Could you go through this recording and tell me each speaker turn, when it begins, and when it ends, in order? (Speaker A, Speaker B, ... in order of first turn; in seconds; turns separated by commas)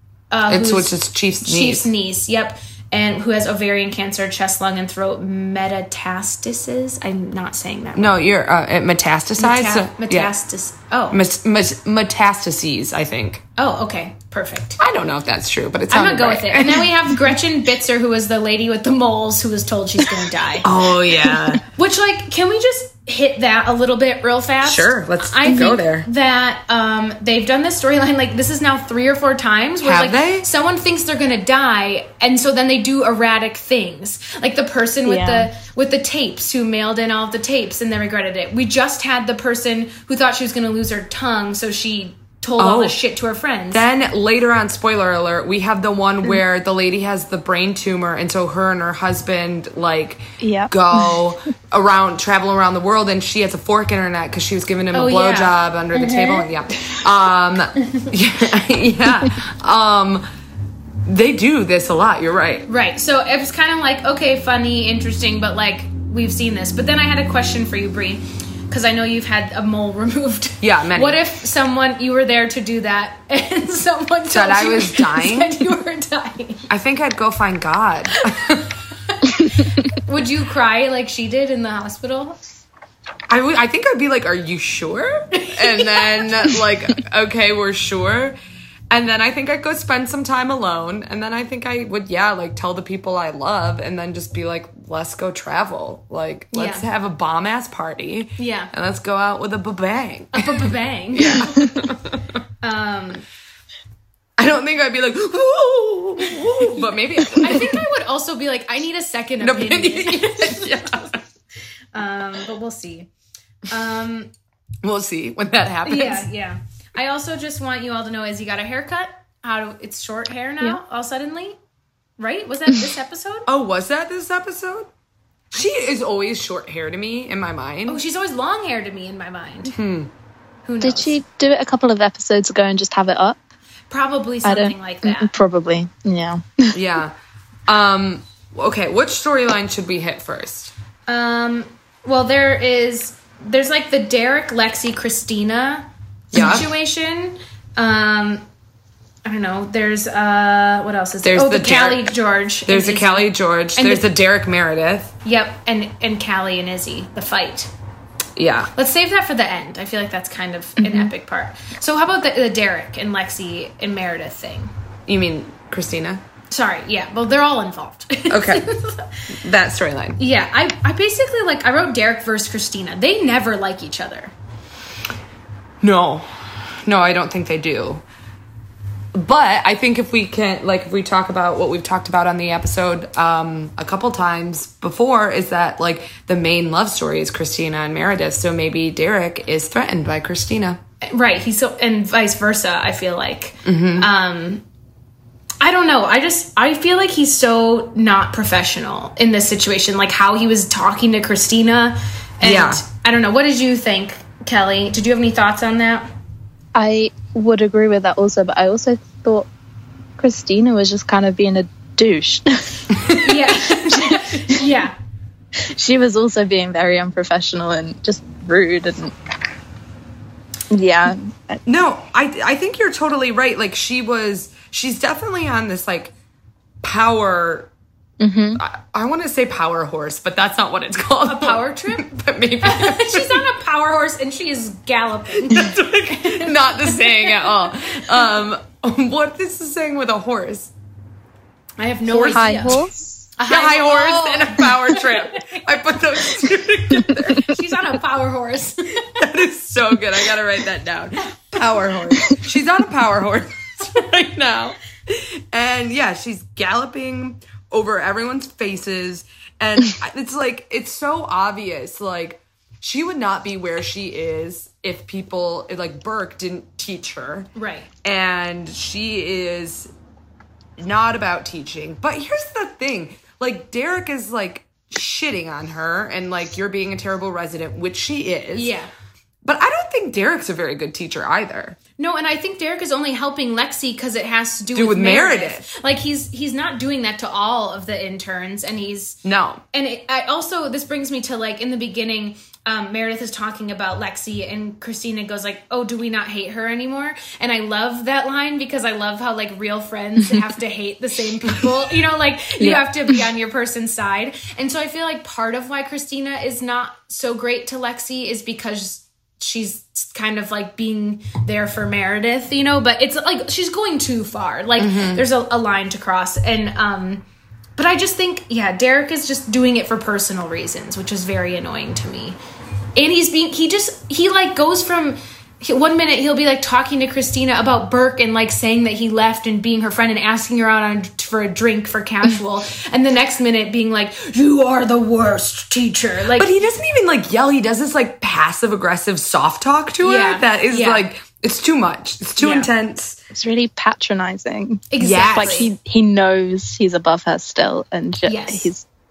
Speaker A: 0.3-8.2, Speaker B: 0.5-1.9, Speaker B: 8.0-10.3, Speaker A: 9.4-11.2, Speaker B: 11.1-13.4, Speaker A: 13.6-14.8, Speaker B: 14.8-17.3, Speaker A: 15.9-20.7, Speaker B: 20.6-21.6, Speaker C: 21.3-21.6, Speaker A: 21.7-43.8, Speaker B: 24.6-26.1, Speaker B: 29.8-30.5, Speaker C: 35.0-35.5, Speaker B: 42.6-43.0, Speaker B: 43.7-60.2, Speaker C: 50.4-51.0, Speaker A: 54.9-56.4, Speaker B: 61.0-62.7, Speaker A: 62.7-76.7, Speaker B: 70.6-71.2, Speaker B: 74.3-75.7, Speaker B: 76.7-78.7, Speaker A: 79.0-82.4, Speaker B: 83.3-88.4, Speaker A: 85.3-86.5, Speaker B: 88.9-102.2, Speaker A: 96.5-96.8, Speaker A: 98.4-98.7, Speaker A: 100.3-101.8, Speaker A: 102.6-103.2, Speaker B: 104.4-107.8, Speaker A: 107.3-111.1, Speaker B: 109.4-111.2, Speaker A: 111.9-113.1, Speaker A: 113.7-114.3, Speaker B: 114.8-116.3, Speaker A: 115.8-121.5, Speaker A: 122.2-123.5, Speaker B: 123.5-124.9, Speaker B: 125.5-128.0, Speaker A: 127.9-129.7, Speaker B: 129.7-130.1, Speaker A: 130.6-131.2, Speaker C: 130.8-133.4, Speaker A: 133.9-135.3, Speaker C: 134.4-136.8, Speaker B: 136.7-137.1, Speaker B: 137.7-140.7, Speaker A: 141.1-148.4, Speaker B: 146.3-146.7, Speaker C: 146.4-146.6, Speaker A: 149.2-154.1, Speaker B: 151.2-152.1, Speaker B: 152.7-155.1, Speaker A: 155.2-157.7, Speaker B: 158.4-158.7, Speaker A: 158.7-164.7, Speaker C: 160.8-161.1, Speaker B: 165.1-166.2, Speaker A: 166.5-169.2, Speaker B: 168.3-168.7, Speaker B: 169.3-170.2, Speaker A: 170.2-174.3, Speaker B: 175.8-176.3, Speaker B: 176.8-178.0, Speaker B: 179.1-190.8, Speaker A: 191.0-194.6, Speaker B: 193.6-194.1, Speaker A: 195.6-206.1, Speaker B: 202.4-202.8, Speaker C: 206.7-209.5, Speaker C: 210.2-214.7, Speaker A: 213.1-214.9, Speaker C: 215.6-219.1, Speaker C: 220.7-221.6, Speaker B: 221.7-226.1, Speaker B: 226.8-227.7, Speaker C: 228.2-228.6, Speaker B: 228.6-233.4, Speaker A: 231.2-232.1, Speaker A: 232.6-237.7, Speaker B: 235.4-240.7, Speaker A: 241.8-242.8, Speaker B: 242.1-242.8, Speaker C: 242.3-243.3, Speaker A: 243.4-245.6, Speaker B: 243.4-247.6, Speaker A: 247.4-249.2, Speaker B: 249.2-267.5, Speaker A: 267.6-267.9, Speaker B: 268.0-269.9, Speaker B: 270.8-278.7, Speaker A: 278.5-278.9, Speaker B: 279.4-281.8, Speaker A: 282.0-289.2, Speaker B: 284.7-285.7, Speaker B: 289.2-289.6, Speaker A: 289.7-317.2, Speaker C: 302.6-302.9, Speaker B: 314.8-315.3, Speaker A: 317.8-322.4, Speaker A: 322.9-336.5, Speaker B: 336.3-343.2, Speaker A: 340.0-341.0, Speaker A: 342.4-342.7, Speaker C: 343.3-348.8, Speaker A: 344.9-345.7, Speaker B: 345.0-345.7, Speaker A: 348.3-348.7